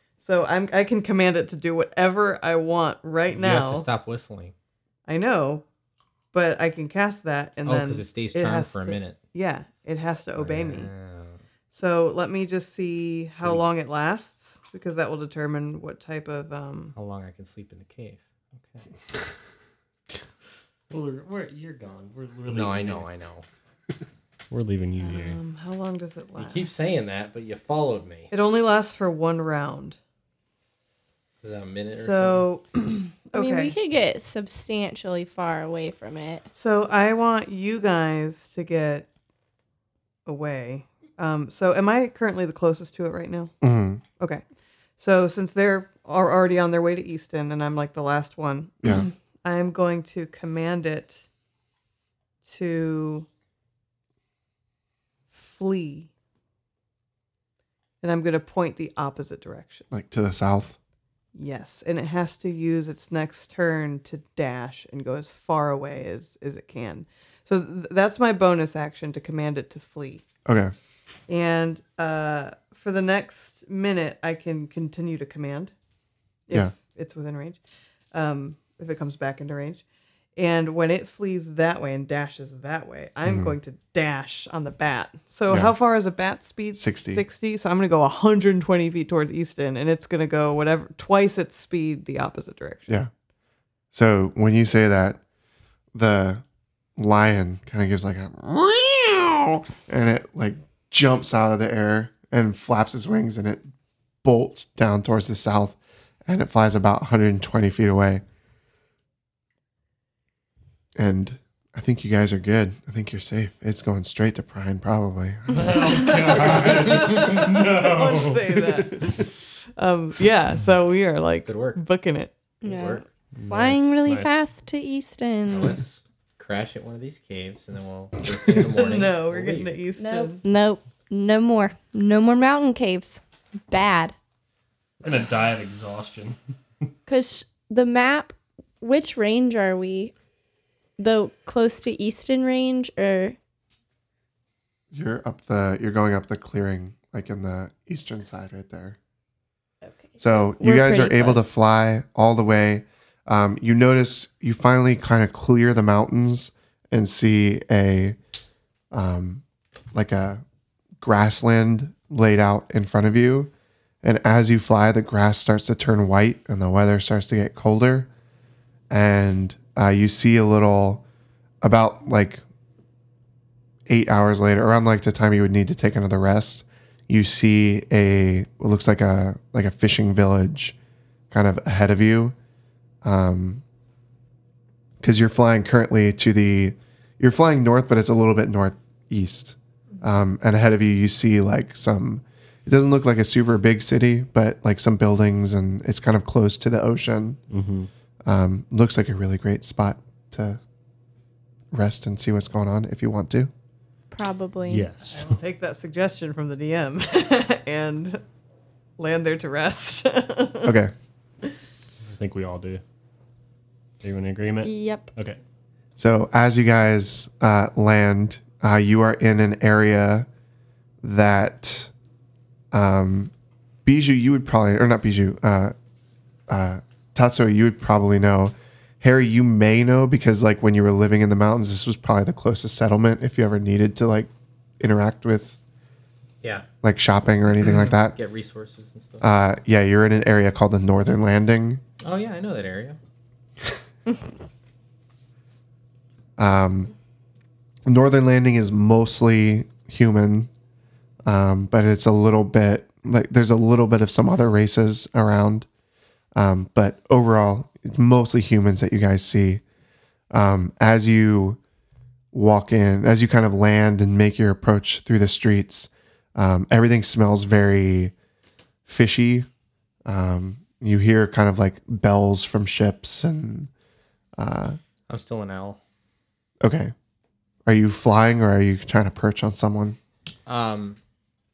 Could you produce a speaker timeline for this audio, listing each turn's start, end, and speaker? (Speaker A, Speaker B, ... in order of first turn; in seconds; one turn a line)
Speaker A: 0.2-3.9
Speaker B: 3.3-4.5
Speaker A: 5.1-5.6
Speaker A: 6.3-10.9
Speaker B: 7.7-9.2
Speaker B: 10.4-11.4
Speaker A: 11.7-16.9
Speaker B: 13.4-13.6
Speaker B: 16.9-18.9
Speaker C: 20.9-23.1
Speaker B: 22.5-23.4
Speaker C: 24.5-25.4
Speaker A: 25.0-26.7
Speaker B: 26.4-28.3
Speaker A: 28.3-30.0
Speaker B: 31.4-32.5
Speaker A: 31.9-33.7
Speaker D: 33.3-36.5
Speaker A: 36.5-39.1
Speaker A: 40.3-43.5
Speaker E: 43.6-44.0
Speaker A: 44.2-44.4
Speaker A: 45.0-51.3
Speaker A: 52.4-53.3
Speaker A: 55.3-56.1
Speaker A: 58.0-59.9
Speaker E: 59.9-60.8
Speaker A: 61.4-70.2
Speaker E: 70.5-70.7
Speaker A: 71.3-75.7
Speaker A: 76.5-79.8
Speaker A: 80.4-92.9
Speaker E: 83.3-83.5
Speaker E: 85.5-85.7
Speaker E: 86.8-87.2
Speaker E: 93.9-95.2
Speaker E: 95.9-96.4
Speaker E: 97.0-103.7
Speaker E: 104.2-108.2
Speaker E: 111.0-116.2
Speaker C: 115.5-118.8
Speaker A: 115.8-122.3
Speaker B: 121.5-121.8
Speaker D: 122.6-125.8
Speaker B: 122.6-123.1
Speaker C: 123.3-124.4
Speaker B: 125.5-129.8
Speaker A: 128.7-130.4
Speaker D: 130.0-134.2
Speaker C: 135.0-136.4
Speaker D: 137.1-140.1
Speaker D: 141.0-143.4
Speaker E: 144.9-149.0
Speaker D: 149.8-151.5
Speaker E: 150.2-158.2
Speaker E: 158.9-159.4
Speaker E: 159.9-160.4
Speaker E: 161.0-163.5
Speaker E: 164.0-168.1
Speaker E: 168.9-171.1
Speaker E: 171.6-172.4
Speaker E: 173.9-180.8
Speaker E: 181.3-182.3
Speaker E: 183.0-183.6
Speaker E: 185.0-197.4
Speaker C: 197.5-197.9
Speaker E: 198.2-200.6
Speaker E: 201.7-203.5
Speaker D: 204.1-204.9
Speaker C: 204.7-205.4
Speaker A: 205.1-208.2
Speaker A: 209.0-210.8
Speaker E: 210.6-210.9
Speaker C: 212.1-212.8
Speaker C: 214.0-215.4
Speaker D: 214.6-215.1
Speaker E: 216.0-220.3
Speaker E: 221.0-221.9
Speaker E: 222.7-223.3
Speaker E: 223.8-225.7
Speaker E: 226.5-235.6
Speaker E: 236.8-238.2
Speaker B: 237.6-239.3
Speaker E: 239.2-241.8
Speaker B: 242.0-243.0
Speaker E: 246.4-246.9
Speaker E: 247.9-250.5
Speaker E: 251.3-255.7
Speaker E: 256.4-259.6
Speaker E: 260.3-261.6
Speaker E: 262.3-268.1
Speaker E: 268.9-269.5
Speaker E: 270.1-273.7
Speaker E: 274.4-274.8
Speaker B: 275.1-275.8
Speaker E: 276.6-276.9
Speaker E: 277.7-280.0
Speaker B: 280.5-281.0